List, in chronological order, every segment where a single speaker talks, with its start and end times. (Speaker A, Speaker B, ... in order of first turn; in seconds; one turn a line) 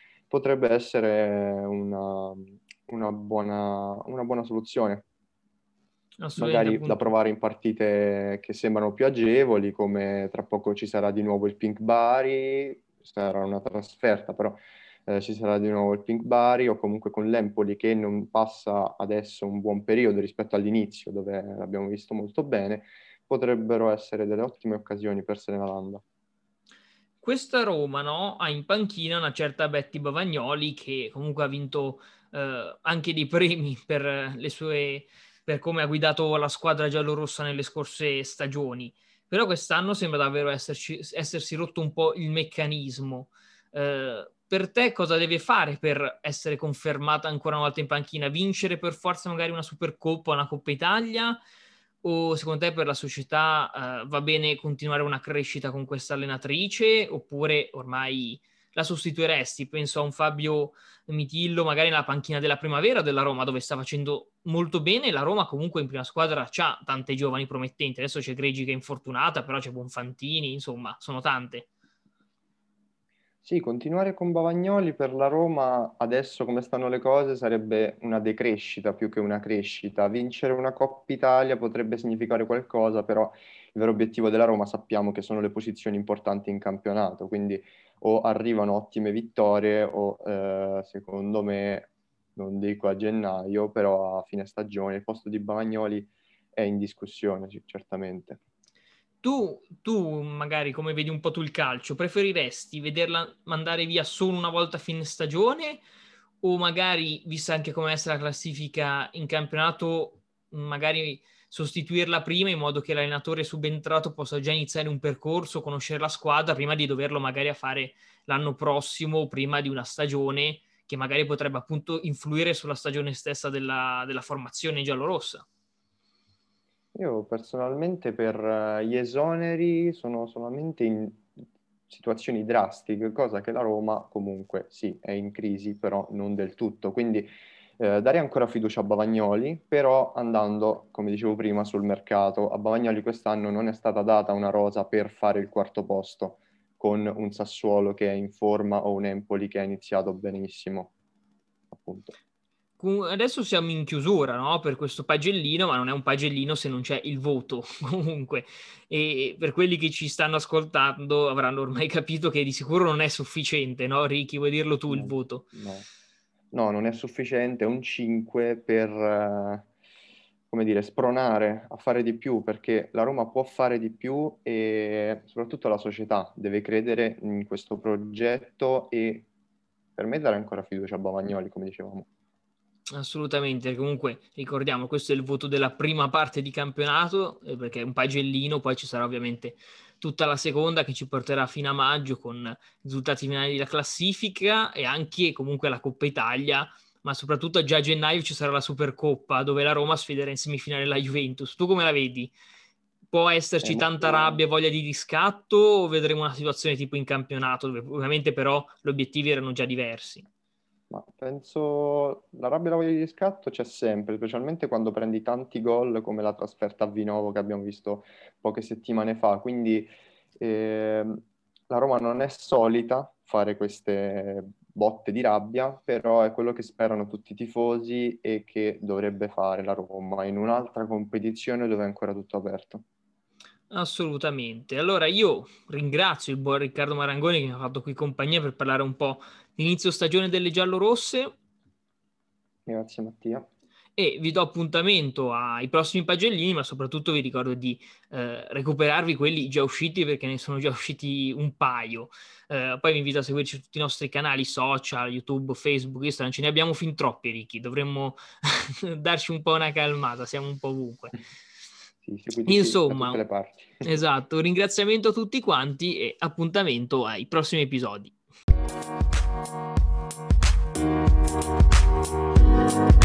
Speaker A: 0.3-5.0
Speaker B: 6.2-7.0
Speaker A: 6.4-26.0
Speaker B: 27.2-51.4
Speaker B: 52.0-71.7
Speaker A: 73.4-98.4
Speaker B: 99.2-105.8
Speaker B: 106.4-125.5
Speaker A: 126.9-131.3
Speaker A: 131.9-150.9
Speaker A: 151.7-152.2
Speaker B: 152.8-165.4
Speaker A: 164.9-165.8
Speaker A: 166.5-169.7
Speaker A: 170.5-179.3
Speaker A: 179.9-182.1
Speaker B: 182.9-202.3
Speaker B: 203.1-210.3
Speaker A: 203.6-204.4
Speaker A: 210.9-219.9
Speaker A: 220.4-232.8
Speaker B: 233.7-241.3
Speaker A: 242.7-243.5
Speaker B: 243.9-261.2
Speaker A: 262.0-263.9
Speaker B: 262.4-263.2
Speaker B: 263.8-268.1